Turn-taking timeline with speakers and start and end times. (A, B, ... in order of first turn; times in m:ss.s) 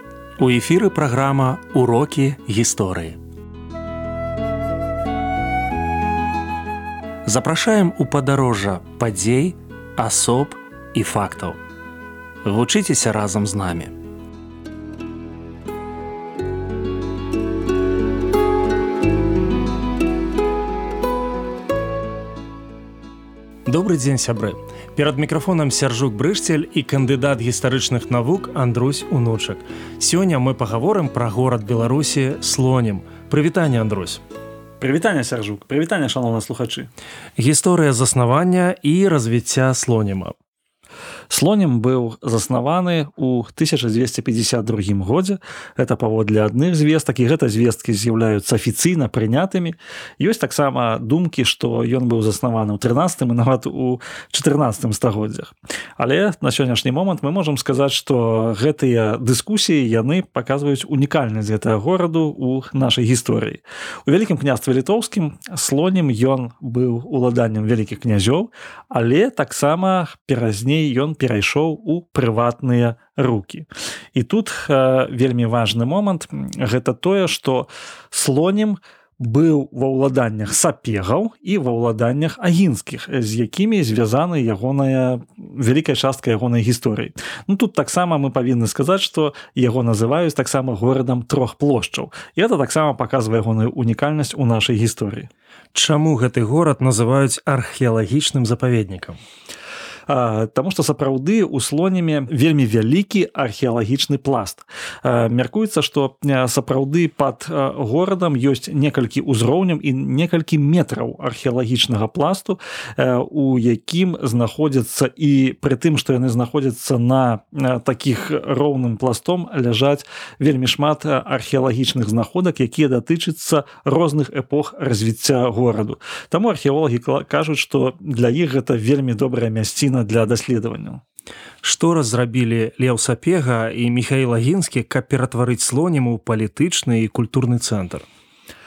0:00.4-0:03.2 A
0:07.2-0:11.6 A
0:12.4-0:13.9 A
0:23.6-0:34.2 A
0:34.8-0:36.9 B
0:37.4-0:40.3 A
0:41.3-1:35.3 B
1:35.7-1:39.2 A
1:40.1-2:11.0 B
2:11.6-2:18.0 A